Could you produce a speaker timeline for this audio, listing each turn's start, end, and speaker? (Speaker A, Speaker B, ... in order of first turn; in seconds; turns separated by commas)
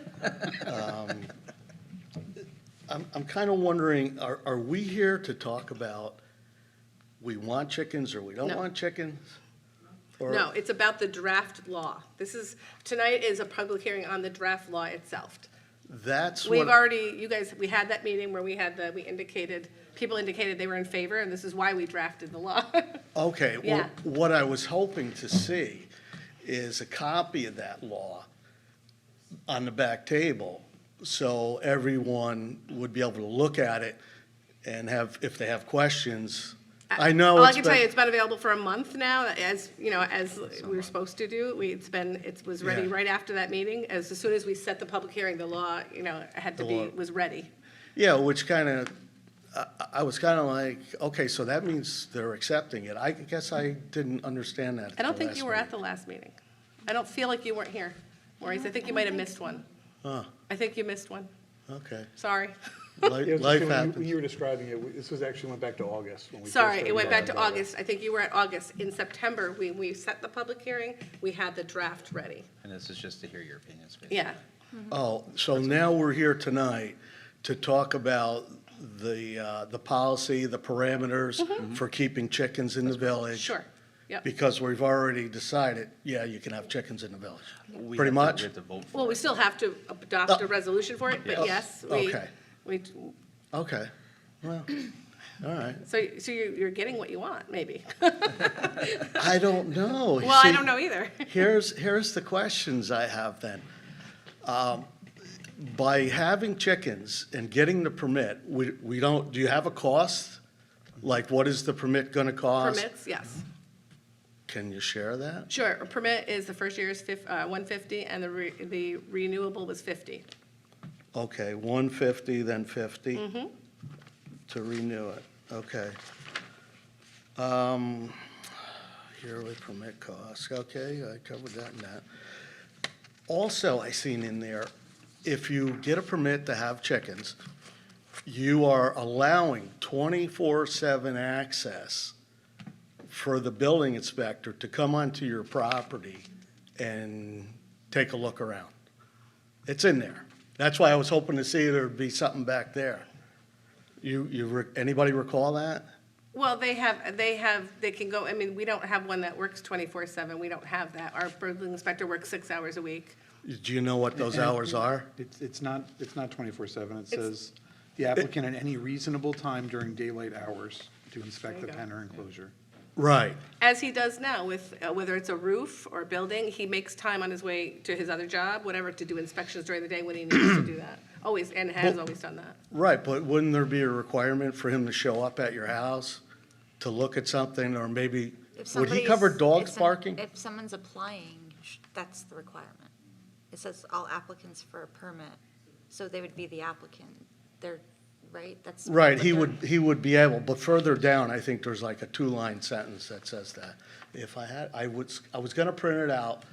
Speaker A: 0.5-1.3, Speaker A: 2.9-6.2, Speaker A: 7.2-9.2, Speaker A: 10.2-10.5, Speaker B: 10.3-15.5, Speaker A: 15.9-16.8, Speaker B: 16.4-23.0, Speaker A: 23.1-25.9, Speaker B: 23.6-23.9, Speaker A: 26.4-28.3, Speaker A: 29.5-34.0, Speaker A: 34.6-37.8, Speaker B: 36.9-47.5, Speaker C: 40.6-40.9, Speaker A: 42.6-42.9, Speaker A: 46.6-46.9, Speaker A: 48.0-48.9, Speaker A: 49.5-55.7, Speaker B: 55.0-56.4, Speaker B: 56.9-59.7, Speaker A: 60.0-60.3, Speaker B: 60.5-61.3, Speaker A: 61.7-62.1, Speaker B: 62.2-63.1, Speaker A: 63.0-64.1, Speaker D: 63.2-67.7, Speaker B: 66.5-72.5, Speaker C: 72.6-74.4, Speaker B: 74.1-74.4, Speaker A: 74.9-83.6, Speaker B: 81.4-81.7, Speaker B: 83.0-84.2, Speaker A: 84.2-88.5, Speaker C: 87.7-89.3, Speaker B: 88.9-93.1, Speaker C: 91.2-91.6, Speaker A: 91.3-92.3, Speaker A: 93.5-93.9, Speaker A: 94.4-94.7, Speaker A: 95.4-95.8, Speaker B: 95.8-99.3, Speaker A: 99.1-100.7, Speaker B: 100.2-101.5, Speaker A: 101.3-103.7, Speaker A: 104.5-104.9, Speaker A: 105.6-110.4, Speaker A: 111.0-112.9, Speaker B: 112.6-113.4, Speaker A: 114.5-115.5, Speaker B: 115.5-120.3, Speaker A: 121.1-123.3, Speaker B: 123.2-123.5, Speaker A: 124.5-126.0, Speaker A: 127.4-128.2, Speaker A: 129.2-132.1, Speaker A: 133.3-134.7, Speaker A: 135.2-137.4, Speaker A: 138.3-142.2, Speaker A: 143.1-146.3, Speaker A: 146.8-148.7, Speaker A: 149.7-153.1, Speaker A: 154.0-155.9, Speaker B: 156.3-163.2, Speaker A: 163.4-165.1, Speaker D: 164.2-172.5, Speaker B: 171.5-171.8, Speaker A: 173.0-173.4, Speaker B: 173.6-182.6, Speaker A: 182.7-186.2, Speaker A: 186.8-190.2, Speaker E: 188.6-192.9, Speaker E: 193.5-195.4, Speaker E: 195.9-199.6, Speaker A: 198.9-206.4